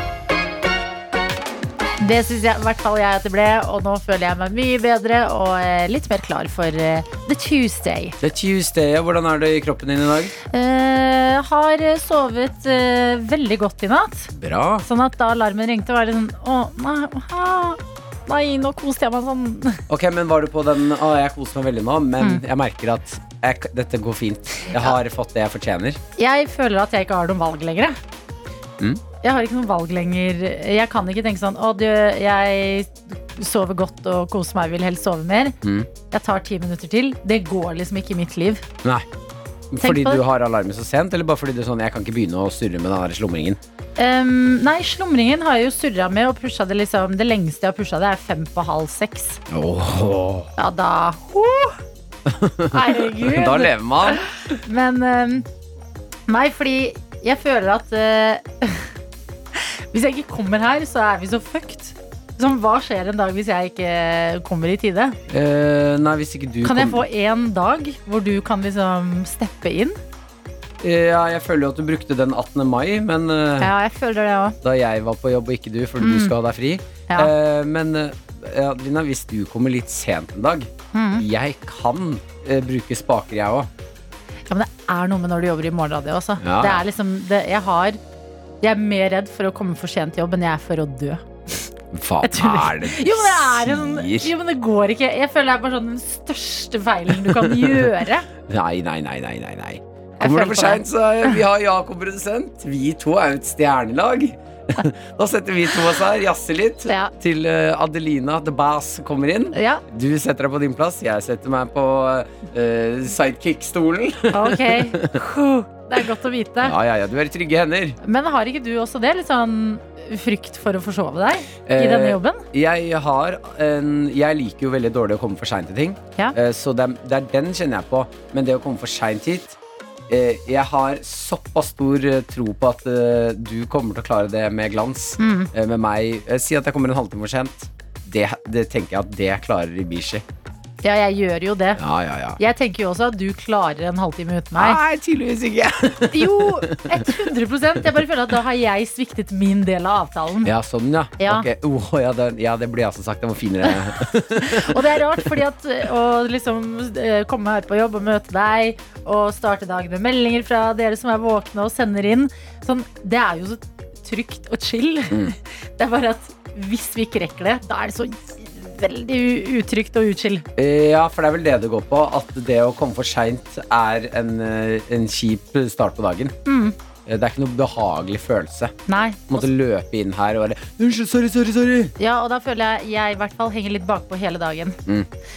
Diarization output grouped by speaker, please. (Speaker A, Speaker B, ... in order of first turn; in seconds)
Speaker A: 2.0-8.2, 10.5-14.3, 14.8-19.8, 24.6-25.0, 26.2-28.0, 29.2-35.5, 36.1-38.6, 39.8-40.2, 44.0-49.4, 50.6-51.8, 52.7-55.5, 56.3-58.9, 59.5-65.2, 66.6-70.0, 73.6-74.5, 76.0-76.3, 80.9-81.2, 84.5-88.0, 88.6-91.2, 92.2-98.3, 100.2-101.4, 106.9-107.1, 109.5-109.8, 114.3-116.8, 118.0-122.4, 135.2-135.5, 140.8-141.8, 142.4-144.8, 146.1-150.5, 151.2-151.5, 154.3-170.4, 176.4-176.7, 178.9-179.5, 182.0-184.8
Speaker B: 8.2-10.3, 14.3-14.9, 19.9-26.0, 35.6-35.9, 39.7-43.6, 49.5-50.5, 52.2-54.3, 65.3-67.0, 70.8-73.7, 74.6-83.7, 86.4-86.8, 91.9-94.3, 97.2-97.8, 98.5-115.2, 116.6-118.0, 121.7-129.6, 130.1-140.2, 141.8-142.4, 144.6-147.2, 150.4-155.3, 170.6-176.3, 177.1-178.7, 179.3-181.9